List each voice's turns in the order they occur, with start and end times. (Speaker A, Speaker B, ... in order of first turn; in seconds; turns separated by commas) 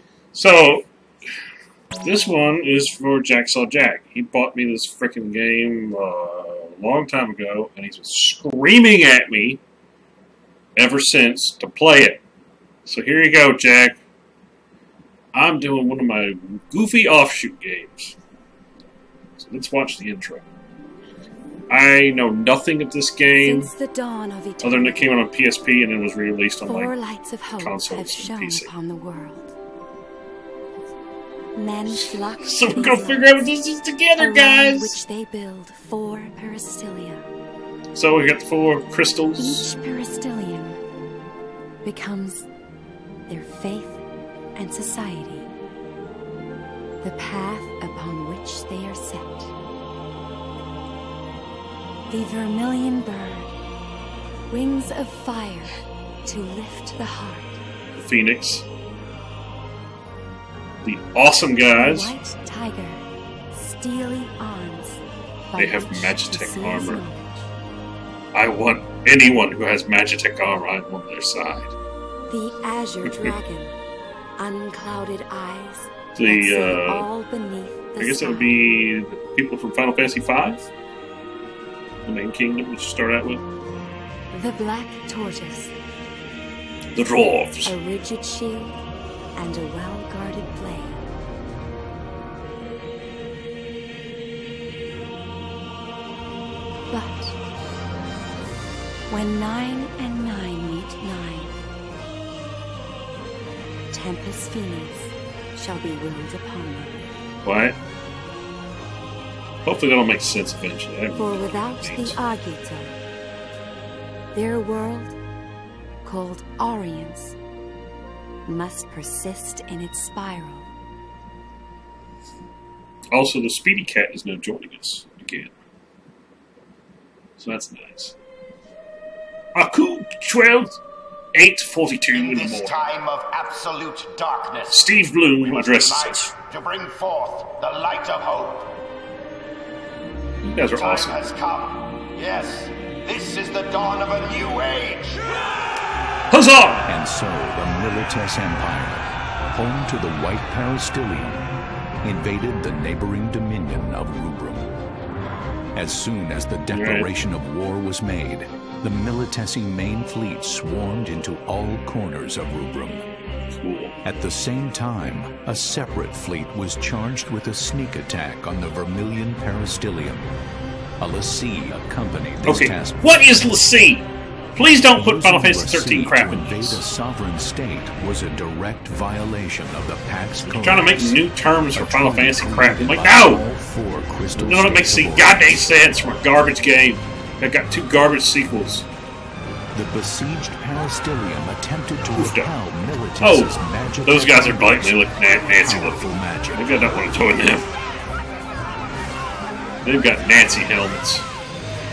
Speaker A: 0.3-0.9, Speaker A: 2.0-9.6, Speaker A: 10.8-12.2, Speaker A: 12.9-14.0, Speaker A: 15.3-18.2, Speaker A: 19.4-20.5, Speaker A: 21.7-23.7, Speaker B: 23.4-25.2, Speaker A: 24.6-26.9, Speaker B: 26.7-29.5, Speaker A: 27.6-28.7, Speaker B: 31.6-33.5, Speaker A: 32.4-35.0, Speaker B: 34.2-37.3, Speaker A: 37.9-39.7, Speaker B: 39.4-40.8, Speaker B: 41.8-42.5, Speaker B: 43.3-45.5, Speaker B: 47.0-49.5, Speaker B: 52.1-53.6, Speaker B: 54.5-57.6, Speaker A: 58.0-58.7, Speaker A: 60.8-62.1, Speaker B: 61.7-67.4, Speaker A: 65.6-67.0, Speaker A: 68.3-71.7, Speaker B: 72.3-73.8, Speaker A: 73.0-73.3, Speaker B: 74.4-78.6, Speaker A: 76.2-77.1, Speaker A: 78.0-80.7, Speaker A: 82.0-83.4, Speaker B: 84.3-85.8, Speaker A: 86.9-87.8, Speaker B: 87.7-88.8, Speaker B: 89.3-91.1, Speaker B: 96.9-97.4, Speaker B: 99.1-101.6, Speaker B: 103.9-107.1, Speaker A: 107.4-107.8, Speaker A: 109.7-112.2, Speaker B: 111.2-113.0, Speaker B: 114.3-115.2, Speaker B: 116.0-117.4, Speaker B: 118.5-120.7, Speaker A: 123.1-125.5, Speaker A: 127.4-128.2, Speaker A: 129.6-130.8, Speaker A: 131.3-132.8, Speaker C: 132.1-138.8, Speaker A: 134.7-136.3, Speaker A: 140.4-141.2, Speaker C: 140.6-145.3, Speaker A: 146.3-146.9, Speaker D: 146.9-151.4, Speaker D: 152.0-154.7, Speaker D: 155.8-163.1, Speaker A: 156.7-157.1, Speaker A: 163.5-164.0, Speaker D: 164.0-170.3, Speaker D: 171.0-173.0, Speaker A: 172.4-176.8, Speaker D: 174.9-181.2, Speaker A: 180.4-183.4, Speaker D: 181.7-185.6, Speaker A: 184.4-188.9, Speaker D: 189.7-197.2, Speaker A: 192.2-192.5, Speaker A: 193.2-197.7, Speaker A: 199.8-201.3